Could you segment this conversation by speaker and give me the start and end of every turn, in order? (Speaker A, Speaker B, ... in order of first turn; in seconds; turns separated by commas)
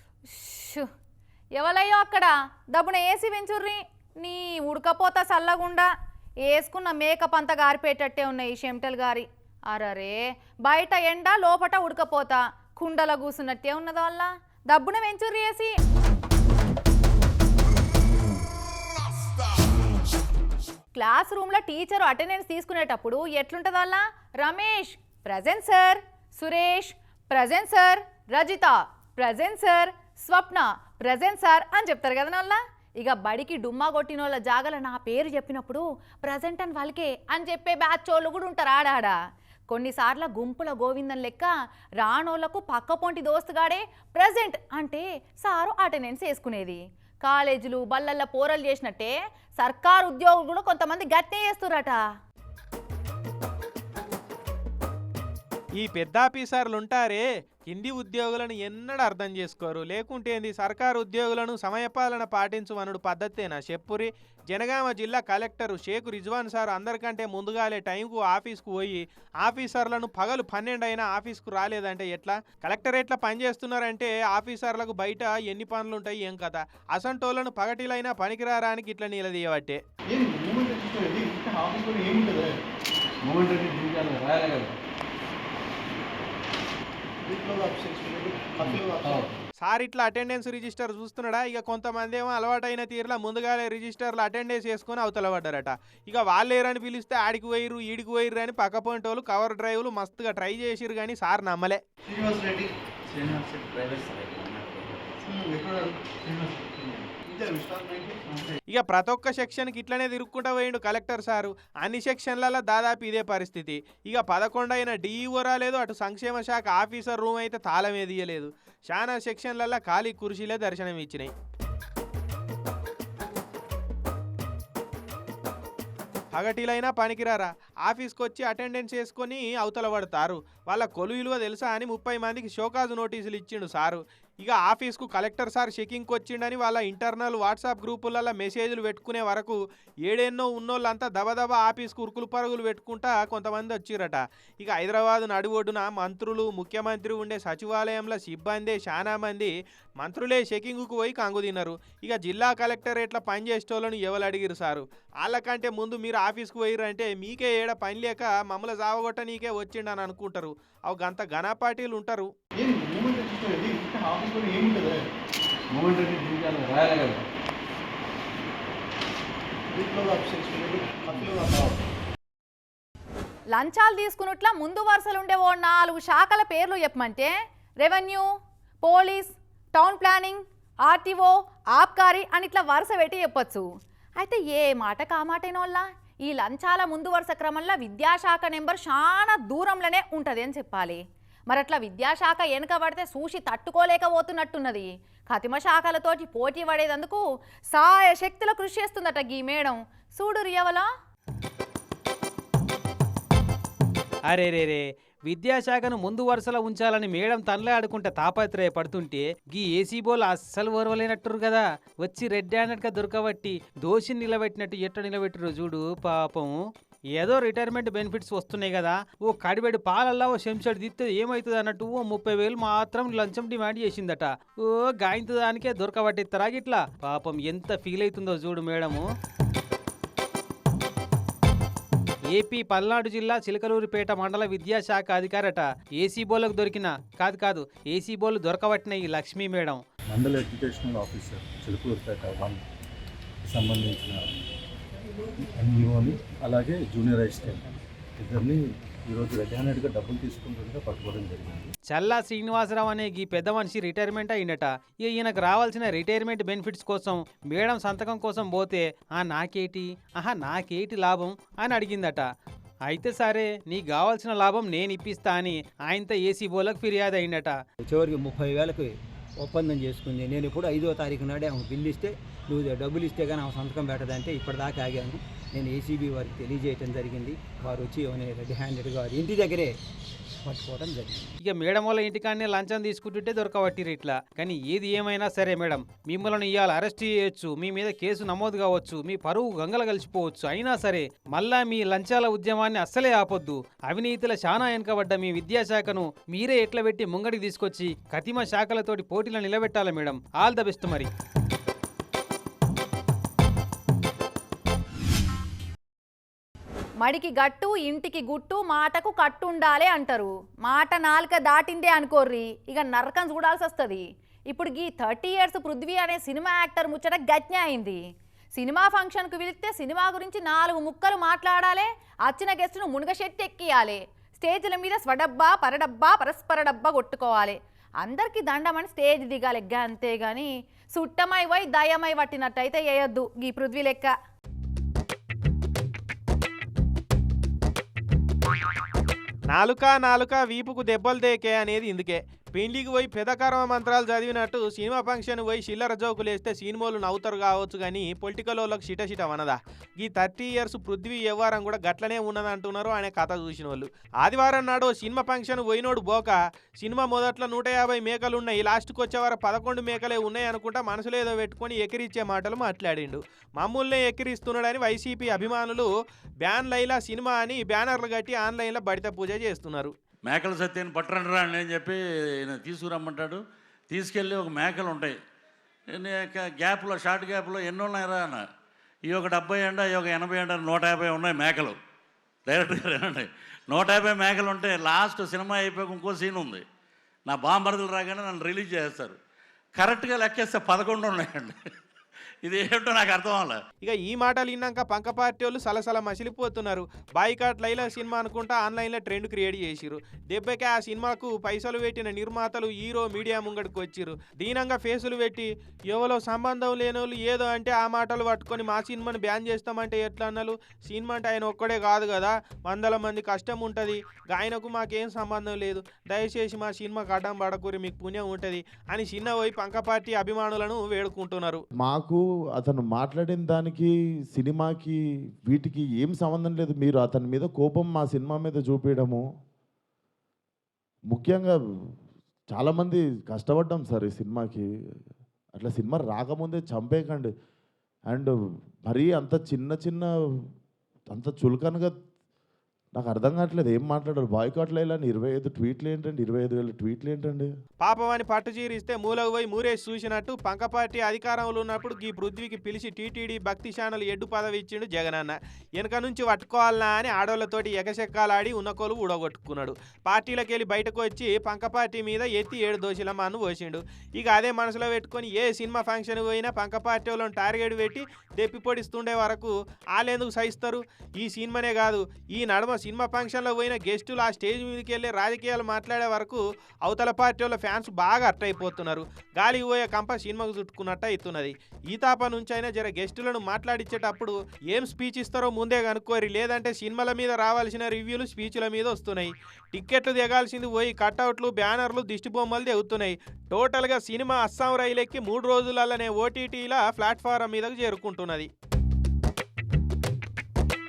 Speaker A: 0.3-0.9, Speaker A: 1.5-5.9, Speaker A: 6.4-15.7, Speaker A: 20.9-39.2, Speaker A: 39.7-52.0, Speaker B: 55.8-79.8, Speaker C: 80.1-82.5, Speaker D: 83.2-84.7, Speaker C: 87.2-89.2, Speaker D: 88.7-89.3, Speaker B: 89.6-101.8, Speaker C: 102.1-102.7, Speaker E: 103.3-104.7, Speaker C: 105.3-105.9, Speaker C: 107.3-108.2, Speaker B: 108.7-121.3, Speaker B: 126.3-162.3, Speaker C: 162.6-165.0, Speaker D: 165.7-167.2, Speaker C: 169.7-171.8, Speaker A: 173.5-178.2, Speaker A: 178.8-200.9, Speaker F: 204.3-216.6, Speaker F: 217.1-229.1, Speaker F: 232.3-239.8, Speaker G: 240.1-242.6, Speaker G: 243.4-244.3, Speaker G: 245.4-251.7, Speaker F: 251.9-262.3, Speaker F: 262.9-267.6, Speaker H: 267.8-279.8, Speaker H: 280.4-281.3, Speaker F: 281.4-301.1, Speaker A: 307.0-318.0, Speaker A: 318.5-334.1, Speaker B: 339.5-365.9, Speaker B: 366.4-369.9, Speaker E: 370.2-375.2, Speaker E: 375.9-378.4, Speaker E: 379.1-381.8, Speaker E: 382.4-386.6, Speaker E: 387.3-389.2, Speaker E: 389.8-391.5, Speaker E: 392.4-393.6, Speaker B: 393.8-421.6, Speaker I: 421.8-429.2, Speaker I: 431.1-431.6, Speaker I: 432.5-434.6, Speaker I: 435.6-437.3, Speaker I: 438.1-440.1, Speaker I: 441.1-441.9, Speaker I: 442.9-447.5, Speaker B: 447.8-498.5